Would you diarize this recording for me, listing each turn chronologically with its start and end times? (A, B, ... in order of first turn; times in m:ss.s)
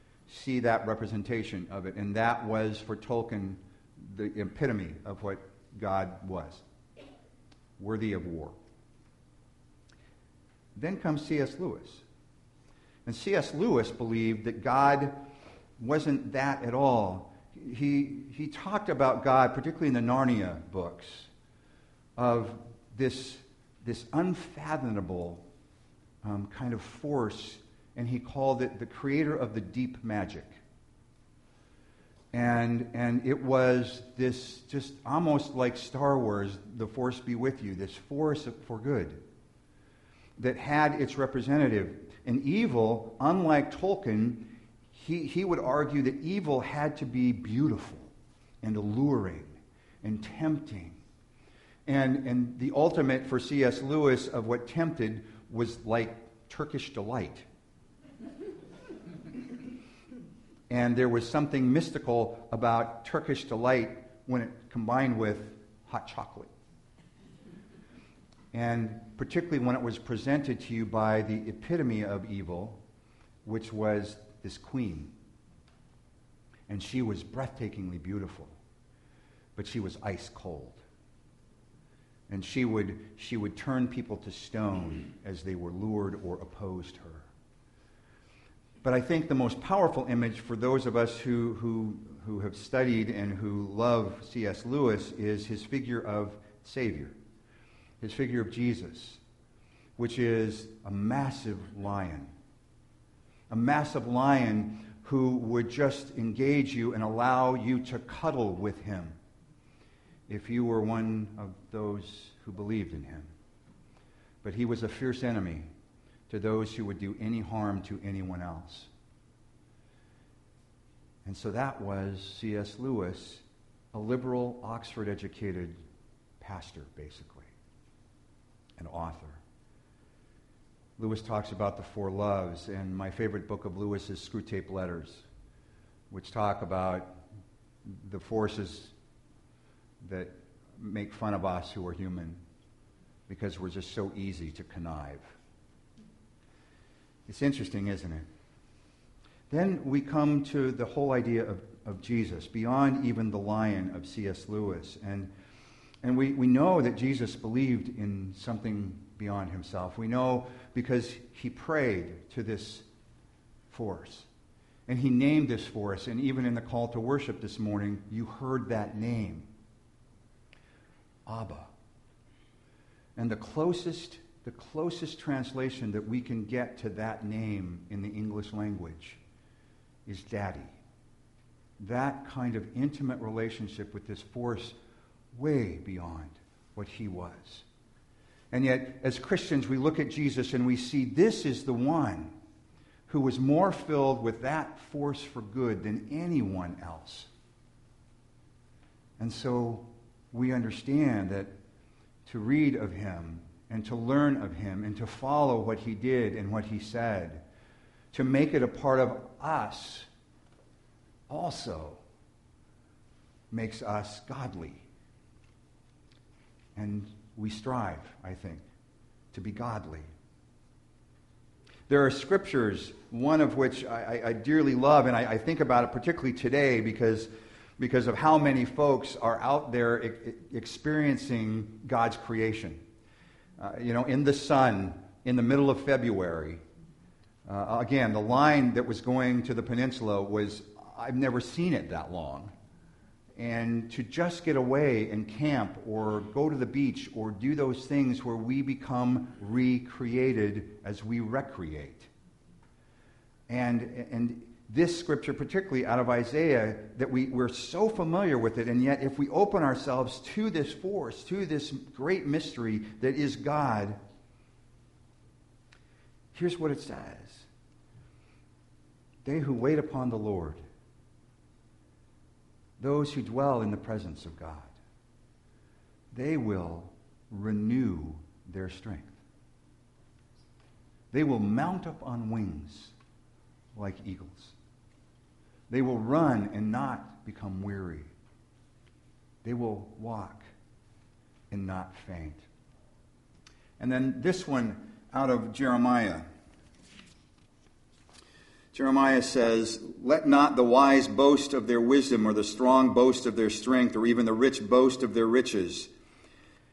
0:00.3-0:06.6 A
0:07.8-0:08.6 A
0:10.8-0:12.0 A
0:13.1-0:15.2 A
0:15.8-0:21.3 A
0:22.2-0:25.5 A
0:26.2-0:30.6 A
0:32.3-0:39.2 A
0:40.4-0:48.1 A
0:48.6-0:51.0 A
0:51.9-0:57.5 A
1:00.7-1:06.5 A
1:08.5-1:12.8 A
1:13.4-1:15.2 A
1:16.7-1:18.5 A
1:19.6-1:20.8 A
1:22.3-1:27.3 A
1:28.8-1:37.2 A
1:38.0-1:39.2 A
1:40.0-1:42.3 A
1:43.5-1:49.2 A
1:50.3-1:53.3 A
1:54.4-1:55.7 A
1:56.3-1:58.9 A
2:01.2-2:05.8 A
2:06.4-2:07.5 A
2:08.8-2:09.4 A
2:11.0-2:15.2 A
2:16.1-2:17.2 A
2:17.9-2:18.9 A
2:20.0-2:22.4 A
2:23.3-2:25.3 A
2:27.3-2:28.3 A
2:29.5-2:35.3 A
2:36.0-2:42.8 A
2:43.7-2:44.3 A
2:44.9-2:49.5 A
2:51.3-2:51.7 A
2:53.2-2:59.2 A
3:00.1-3:00.8 A
3:01.8-3:04.8 A
3:05.3-3:07.6 A
3:08.5-3:12.3 A
3:13.1-3:17.3 A
3:19.2-3:21.5 A
3:22.3-3:27.4 A
3:28.1-3:30.1 A
3:31.3-3:32.0 A
3:33.5-3:34.9 A
3:36.8-3:38.6 A
3:39.3-3:40.1 A
3:41.9-3:52.8 A
3:53.6-3:56.6 A
3:57.5-4:02.5 A
4:03.4-4:12.1 A
4:13.5-4:24.0 A
4:26.3-4:27.5 A
4:29.2-4:30.6 A
4:32.8-4:34.7 A
4:36.1-4:39.2 A
4:41.1-4:42.9 A
4:43.7-4:44.6 A
4:45.7-4:48.1 A
4:49.4-4:50.5 A
4:51.5-4:52.4 A
4:53.8-4:56.3 A
4:58.7-5:05.9 A